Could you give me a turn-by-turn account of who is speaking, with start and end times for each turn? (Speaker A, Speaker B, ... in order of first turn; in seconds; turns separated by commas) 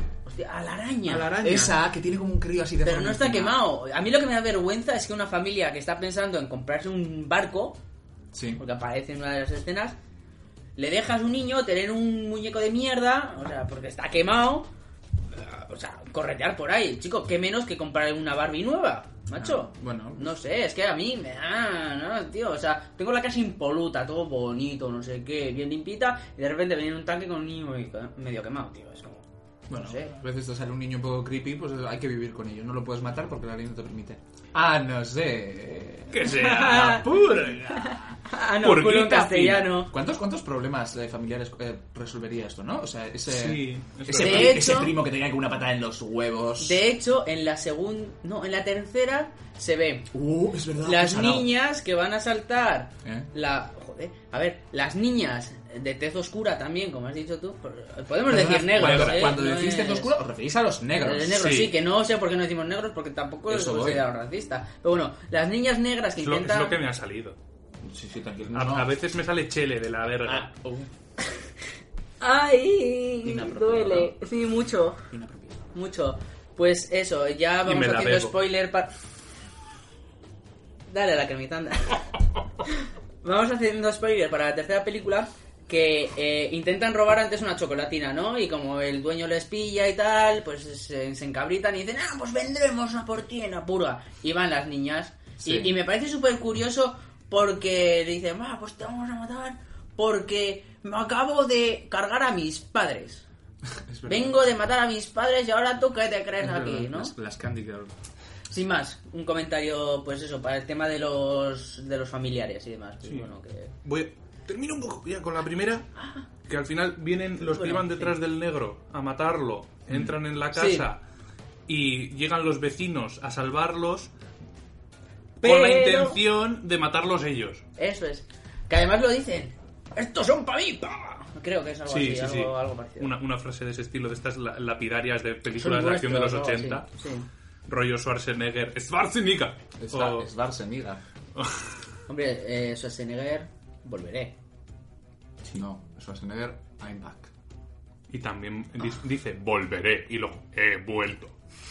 Speaker A: 0.2-1.3, Speaker B: 1.1-1.8, Speaker C: 1.3-3.6, Speaker A: 2.8-7.8, Speaker C: 8.3-8.6, Speaker A: 8.6-9.9, Speaker A: 10.8-14.7, Speaker A: 15.3-30.1, Speaker C: 19.4-20.4, Speaker C: 29.7-38.1, Speaker B: 36.1-37.8, Speaker A: 36.3-37.1, Speaker A: 37.7-39.9, Speaker B: 38.6-39.7, Speaker C: 39.7-46.8, Speaker B: 43.3-44.6, Speaker A: 44.2-44.9, Speaker A: 46.6-50.1, Speaker C: 50.1-51.5, Speaker A: 50.8-60.1, Speaker C: 53.0-53.3, Speaker C: 58.2-61.5, Speaker B: 58.8-59.1, Speaker A: 61.0-66.8, Speaker B: 61.4-61.8, Speaker C: 63.5-64.1, Speaker B: 66.2-67.3, Speaker C: 67.8-68.9, Speaker B: 68.5-70.5, Speaker C: 70.2-70.9, Speaker A: 72.2-75.0, Speaker C: 73.2-74.2, Speaker C: 75.1-75.7, Speaker A: 75.7-78.9, Speaker B: 77.6-78.3, Speaker A: 80.9-82.0, Speaker A: 83.2-103.3, Speaker C: 95.4-95.7, Speaker C: 103.8-104.4, Speaker A: 104.1-107.1, Speaker C: 106.4-107.9, Speaker A: 108.5-113.7, Speaker B: 113.0-113.3, Speaker B: 113.8-115.9, Speaker A: 116.0-116.2, Speaker B: 116.5-121.0, Speaker A: 117.4-118.1, Speaker A: 120.5-120.9, Speaker B: 121.7-124.1, Speaker A: 125.4-126.2, Speaker B: 125.4-127.6, Speaker A: 127.8-133.1, Speaker B: 131.9-136.9, Speaker A: 135.6-137.3, Speaker B: 137.7-140.3, Speaker C: 139.8-141.0, Speaker B: 141.3-141.6, Speaker A: 142.1-144.3, Speaker C: 145.4-147.3, Speaker B: 148.1-151.3